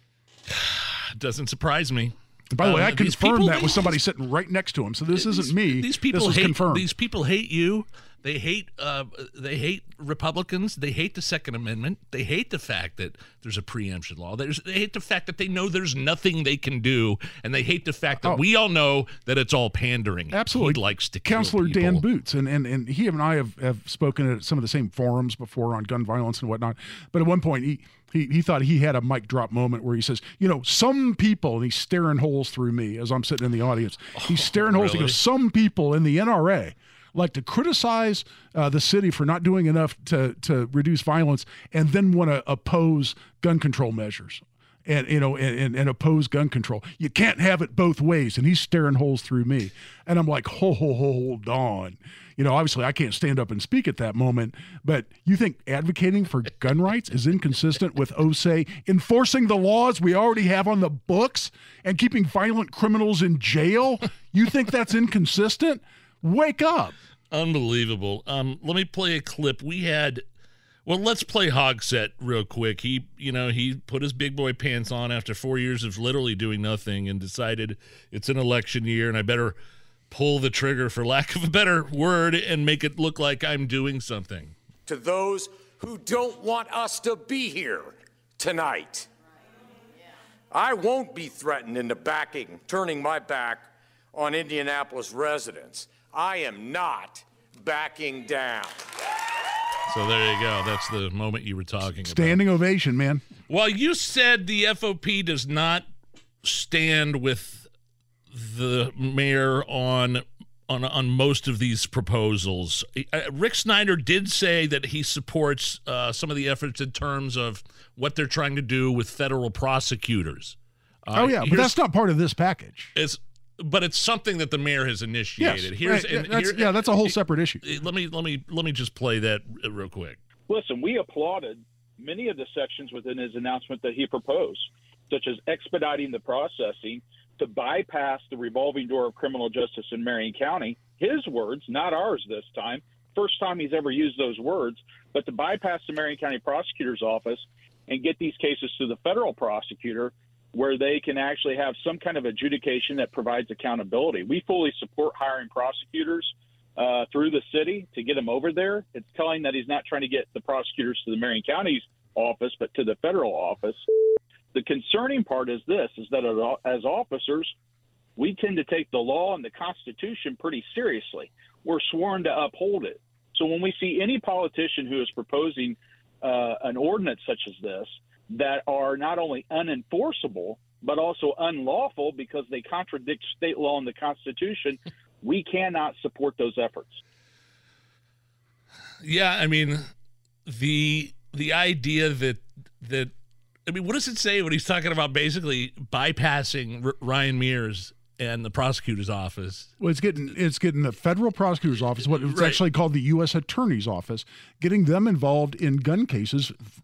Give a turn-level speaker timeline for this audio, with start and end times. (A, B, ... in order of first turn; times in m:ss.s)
0:00.5-0:04.0 A
0:02.5-0:06.8 B
0:05.1-0:22.0 A
0:20.3-1:07.0 B
0:34.1-0:35.2 A
1:07.3-1:10.2 A
1:10.8-1:19.6 A
1:20.1-1:24.5 A
1:24.8-1:29.1 C
1:30.5-1:38.8 C
1:39.9-1:42.4 A
1:42.0-1:43.2 B
1:43.5-1:45.8 A
1:46.4-1:47.7 A
1:48.3-2:01.8 A
2:01.1-2:02.9 B
2:02.9-2:10.2 A
2:05.4-2:07.6 B
2:10.5-2:43.8 D
2:44.5-2:47.5 D
2:48.2-3:07.0 D
3:09.0-3:09.8 A
3:10.4-3:13.1 A
3:13.7-3:19.7 A
3:19.8-3:26.6 B
3:22.0-3:22.6 A